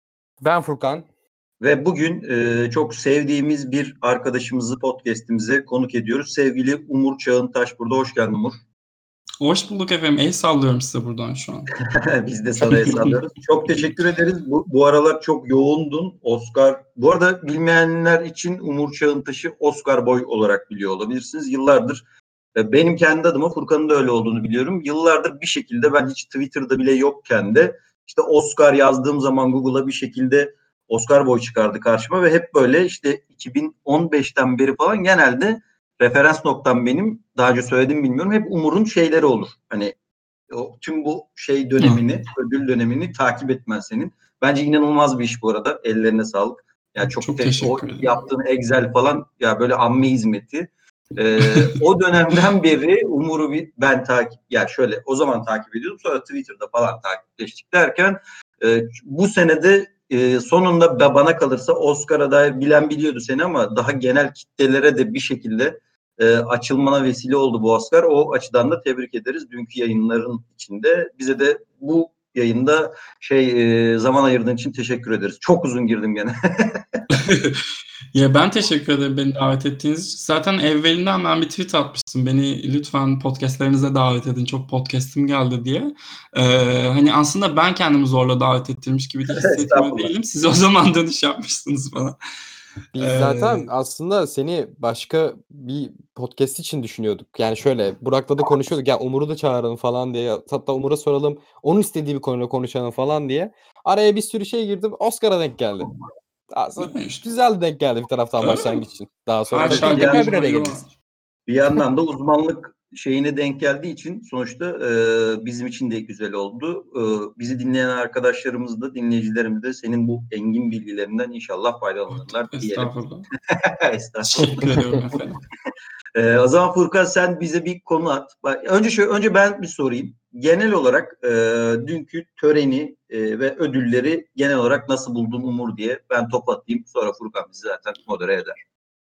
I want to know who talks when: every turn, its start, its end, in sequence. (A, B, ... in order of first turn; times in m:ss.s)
0:00.4-0:01.1 A
0:01.6-0:08.6 B
0:09.4-0:11.7 C
0:11.9-0:22.0 B
0:12.6-0:13.2 C
0:22.6-0:40.0 B
0:40.5-1:17.0 B
0:47.1-0:48.2 C
0:51.5-0:51.8 C
1:17.1-1:17.6 C
1:18.1-1:32.2 C
1:29.3-1:30.1 B
1:33.0-1:45.9 A
1:33.0-1:33.7 C
1:46.5-1:50.8 A
1:46.8-1:47.2 C
1:48.4-1:48.8 C
1:49.5-1:50.9 C
1:49.6-1:50.2 B
1:51.5-2:04.8 B
2:02.1-2:03.3 C
2:04.2-2:05.4 C
2:06.2-2:18.6 B